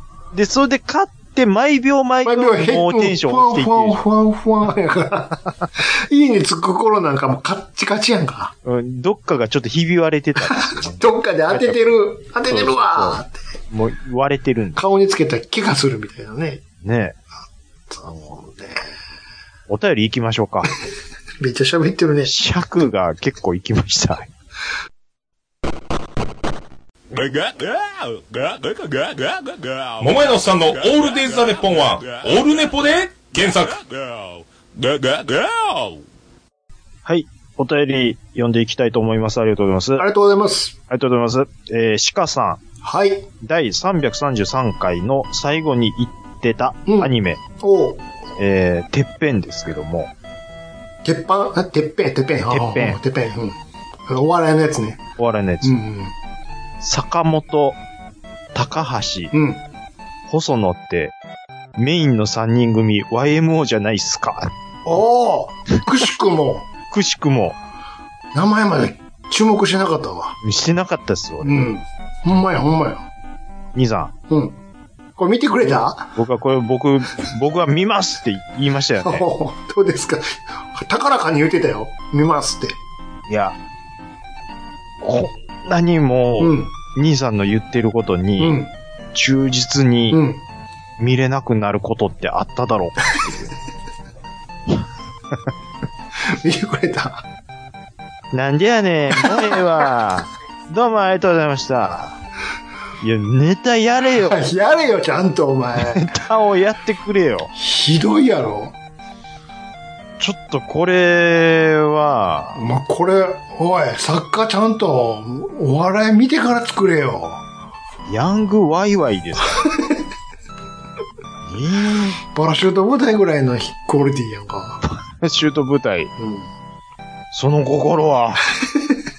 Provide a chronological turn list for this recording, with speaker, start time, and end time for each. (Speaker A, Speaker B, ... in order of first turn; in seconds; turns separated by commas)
Speaker A: 0.3-4.0, Speaker B: 2.2-8.5, Speaker A: 8.6-14.8, Speaker B: 10.5-13.3, Speaker B: 14.8-16.6, Speaker A: 16.8-17.2, Speaker B: 17.9-18.8, Speaker A: 19.7-20.7, Speaker B: 21.4-22.3, Speaker A: 22.2-24.3, Speaker C: 27.1-36.0, Speaker A: 37.0-40.0, Speaker B: 40.0-40.7, Speaker A: 40.9-42.6, Speaker B: 42.8-43.3, Speaker A: 43.4-47.4, Speaker B: 46.9-48.0, Speaker A: 48.4-50.1, Speaker B: 51.0-55.0, Speaker A: 52.5-53.0, Speaker A: 55.2-55.8, Speaker B: 55.6-56.1, Speaker A: 56.8-57.8, Speaker A: 58.5-59.3, Speaker B: 59.3-59.6, Speaker A: 60.3-61.1, Speaker A: 61.8-64.5, Speaker B: 64.8-66.7, Speaker A: 66.9-67.6, Speaker B: 68.3-70.4, Speaker A: 70.4-71.6, Speaker B: 71.4-73.0, Speaker A: 73.7-74.1, Speaker B: 74.3-74.5, Speaker B: 75.2-76.1, Speaker A: 76.2-79.3, Speaker B: 79.0-82.8, Speaker A: 83.3-83.6, Speaker A: 85.0-88.6, Speaker B: 86.4-86.7, Speaker B: 88.4-88.7, Speaker A: 89.1-90.2, Speaker B: 90.1-90.4, Speaker A: 91.0-93.5, Speaker B: 96.2-97.2, Speaker A: 98.3-102.2, Speaker B: 99.2-99.5, Speaker A: 103.0-104.4, Speaker B: 104.2-106.0, Speaker A: 105.8-107.5, Speaker B: 107.5-108.7, Speaker A: 110.2-112.6, Speaker B: 112.5-117.4, Speaker A: 118.1-119.7, Speaker B: 119.6-119.9, Speaker A: 121.5-122.2, Speaker B: 122.3-124.8, Speaker A: 124.8-126.1, Speaker B: 126.2-126.5, Speaker A: 127.3-128.5, Speaker B: 128.6-129.0